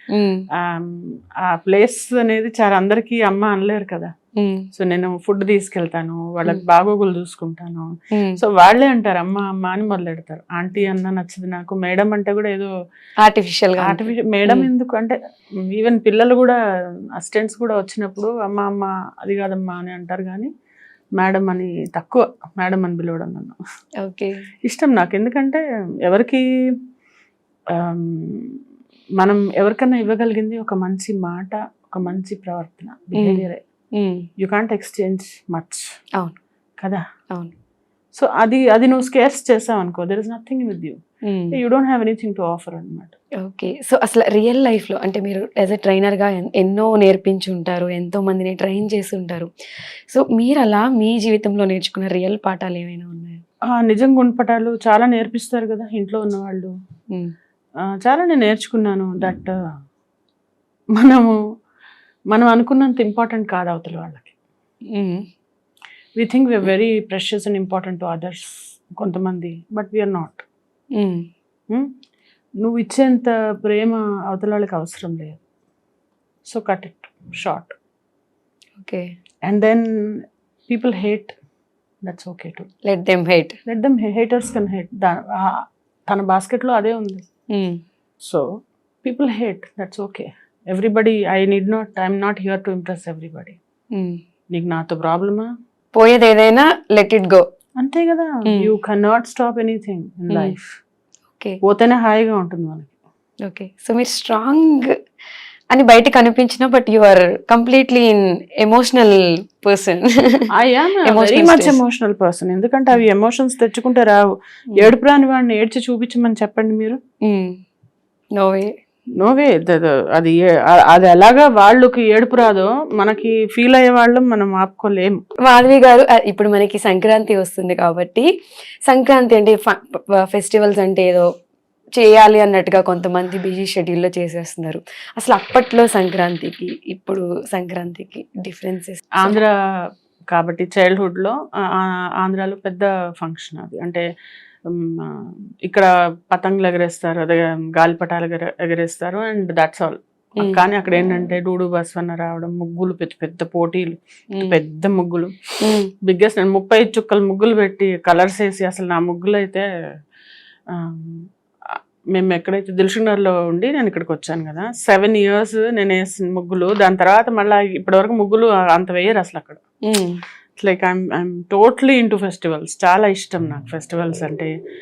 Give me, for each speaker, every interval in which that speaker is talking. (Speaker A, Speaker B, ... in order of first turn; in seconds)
Speaker A: 0.1-0.4, 4.4-4.7, 8.1-8.4, 13.2-14.7, 24.0-24.4, 33.2-33.5, 34.0-34.2, 41.3-41.5, 43.4-49.5, 50.1-53.4, 64.9-65.2, 71.0-71.2, 78.8-79.1, 82.9-83.6, 87.5-87.8, 93.9-94.2, 96.0-97.5, 103.5-105.0, 105.7-110.5, 111.1-111.8, 117.3-117.6, 118.4-118.7, 125.5-128.3, 128.9-131.3, 132.0-139.4, 155.6-155.9, 169.9-170.2
Speaker B: 0.7-4.1, 4.7-12.7, 13.8-15.2, 15.7-16.6, 17.2-20.5, 21.2-23.6, 24.7-26.4, 27.8-28.5, 29.2-33.6, 34.4-35.8, 38.2-41.0, 41.5-43.2, 53.7-56.7, 58.0-59.5, 61.0-61.3, 62.3-64.3, 66.2-70.5, 72.6-75.4, 76.5-77.8, 79.5-81.4, 82.1-82.7, 83.7-87.2, 88.2-88.5, 89.0-93.6, 94.5-95.5, 97.8-100.8, 101.6-102.9, 110.5-114.2, 114.8-117.0, 119.2-125.2, 139.2-139.5, 140.3-144.0, 144.7-155.3, 156.1-159.7, 160.7-161.3, 162.1-169.6, 170.6-174.5